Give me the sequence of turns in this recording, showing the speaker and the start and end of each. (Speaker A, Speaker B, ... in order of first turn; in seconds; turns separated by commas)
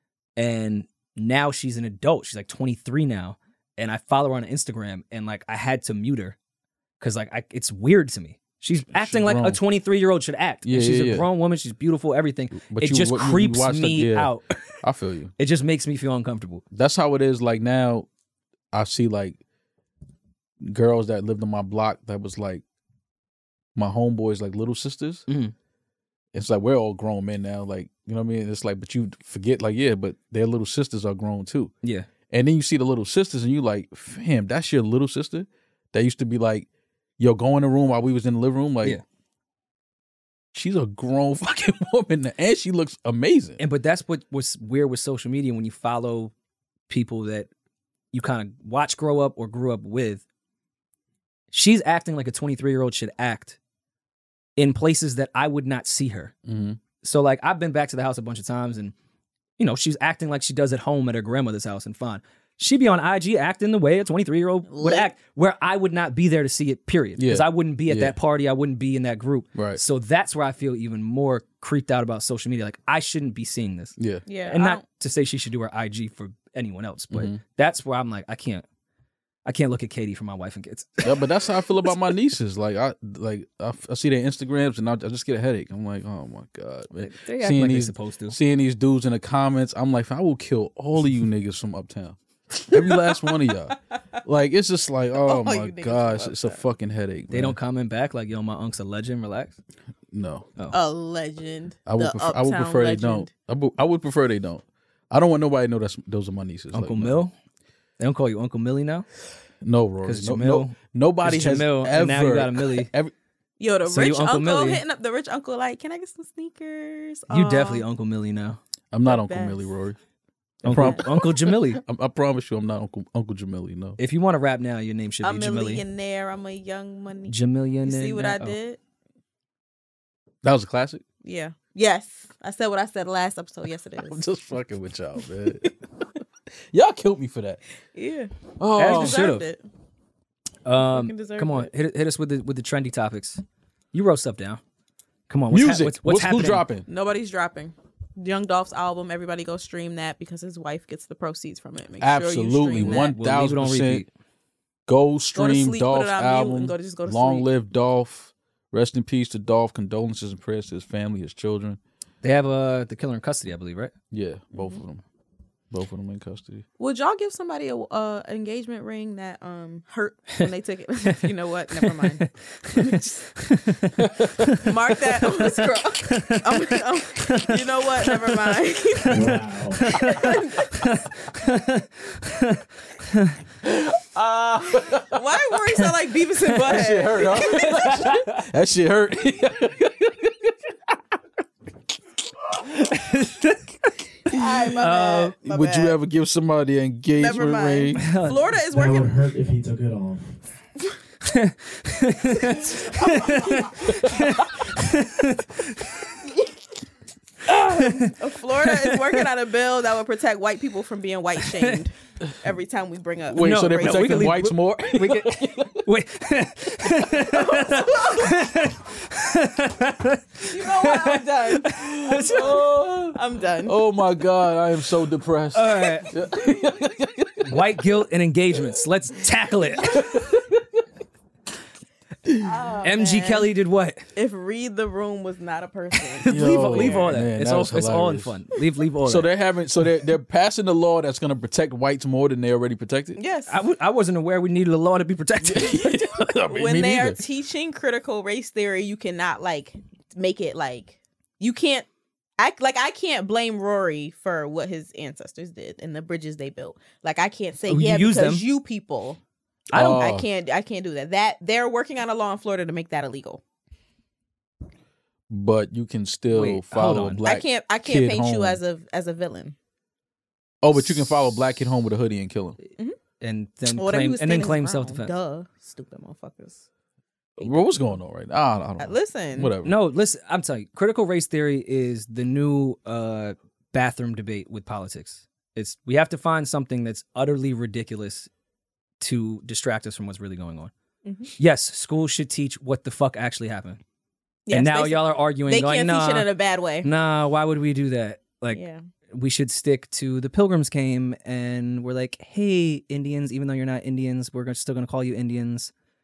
Speaker A: 0.4-6.4, Speaker A: 7.0-14.8, Speaker B: 8.9-9.6, Speaker B: 10.6-11.3, Speaker B: 12.5-15.3, Speaker A: 15.4-16.6, Speaker B: 16.7-18.1, Speaker B: 18.7-19.4, Speaker B: 20.6-22.6, Speaker B: 23.8-25.3, Speaker A: 25.3-25.5, Speaker B: 26.3-31.7, Speaker B: 32.3-36.7, Speaker B: 37.2-39.0, Speaker B: 40.5-43.6, Speaker A: 43.6-46.3, Speaker A: 46.9-47.5, Speaker A: 48.1-50.2, Speaker A: 51.5-53.6, Speaker A: 54.6-56.3, Speaker B: 56.5-56.8, Speaker A: 57.0-58.9, Speaker A: 59.6-74.0, Speaker C: 64.7-65.1, Speaker B: 67.2-68.2, Speaker B: 69.5-69.8, Speaker B: 74.0-74.2, Speaker C: 74.3-74.8, Speaker A: 74.5-78.7, Speaker B: 77.1-77.4, Speaker A: 79.5-81.2, Speaker B: 81.0-97.6, Speaker A: 87.0-88.4, Speaker C: 95.1-96.6, Speaker A: 97.3-99.6, Speaker B: 100.1-100.5, Speaker C: 100.7-103.3, Speaker B: 101.9-107.2, Speaker A: 106.7-107.3, Speaker A: 108.0-109.1, Speaker B: 109.6-113.1, Speaker A: 110.0-112.9, Speaker C: 113.6-117.8, Speaker A: 113.8-114.8, Speaker A: 117.3-118.6, Speaker B: 118.9-120.0, Speaker C: 119.0-119.7, Speaker A: 120.6-121.8, Speaker B: 120.7-124.0, Speaker C: 120.7-121.0, Speaker A: 124.0-125.8, Speaker C: 125.2-128.8, Speaker A: 127.3-128.6, Speaker B: 130.4-131.0, Speaker C: 131.2-134.2, Speaker B: 134.1-135.7, Speaker B: 136.7-137.6, Speaker C: 137.9-139.6, Speaker B: 138.6-139.3, Speaker A: 138.8-139.4, Speaker A: 140.7-144.6, Speaker C: 140.8-141.7, Speaker A: 145.3-146.6, Speaker B: 145.5-146.9, Speaker C: 146.9-153.1, Speaker B: 152.0-154.1, Speaker A: 152.8-154.1, Speaker B: 154.9-161.8, Speaker C: 155.3-157.5, Speaker A: 162.2-163.9, Speaker B: 164.1-165.0, Speaker B: 165.7-166.7, Speaker C: 166.8-173.2, Speaker A: 171.7-174.7, Speaker B: 174.0-174.5, Speaker C: 174.6-179.2, Speaker A: 175.2-178.6, Speaker D: 179.1-179.8, Speaker A: 179.7-183.4, Speaker C: 179.9-180.9, Speaker B: 183.6-185.2, Speaker C: 184.9-187.8, Speaker B: 186.6-190.5, Speaker A: 187.4-188.4, Speaker A: 192.9-193.7, Speaker C: 194.3-196.0, Speaker A: 194.8-195.4, Speaker B: 195.4-198.0, Speaker C: 197.2-199.2, Speaker A: 198.0-198.4, Speaker D: 198.7-200.4, Speaker A: 201.2-205.9, Speaker C: 203.0-203.9, Speaker B: 203.8-204.4, Speaker A: 207.5-209.2, Speaker C: 207.8-214.3, Speaker B: 213.3-215.8, Speaker A: 213.4-222.6, Speaker B: 217.3-218.3, Speaker C: 220.5-221.8, Speaker B: 221.7-227.6, Speaker C: 222.3-223.8, Speaker A: 225.5-226.1, Speaker A: 227.4-230.1, Speaker B: 229.8-230.8, Speaker C: 232.4-233.5, Speaker A: 232.8-234.0, Speaker C: 234.2-237.2, Speaker A: 236.2-239.3, Speaker B: 236.3-238.4, Speaker B: 239.0-243.2, Speaker C: 243.2-243.6, Speaker A: 243.5-246.1, Speaker B: 245.4-247.2, Speaker C: 246.5-251.9, Speaker C: 252.4-259.2, Speaker A: 257.7-258.4, Speaker A: 259.7-260.1, Speaker B: 259.7-260.3, Speaker C: 259.8-263.4, Speaker B: 265.3-268.6, Speaker A: 266.3-267.2, Speaker C: 267.2-269.6, Speaker B: 270.6-272.6, Speaker A: 273.2-275.1, Speaker C: 273.7-276.6, Speaker C: 277.4-277.8, Speaker B: 277.4-279.7, Speaker C: 278.8-279.5, Speaker A: 279.6-288.3, Speaker A: 289.0-290.7, Speaker C: 291.1-291.3, Speaker A: 291.4-293.8, Speaker C: 294.5-296.9, Speaker A: 294.5-296.3, Speaker A: 296.8-305.7, Speaker C: 298.5-298.8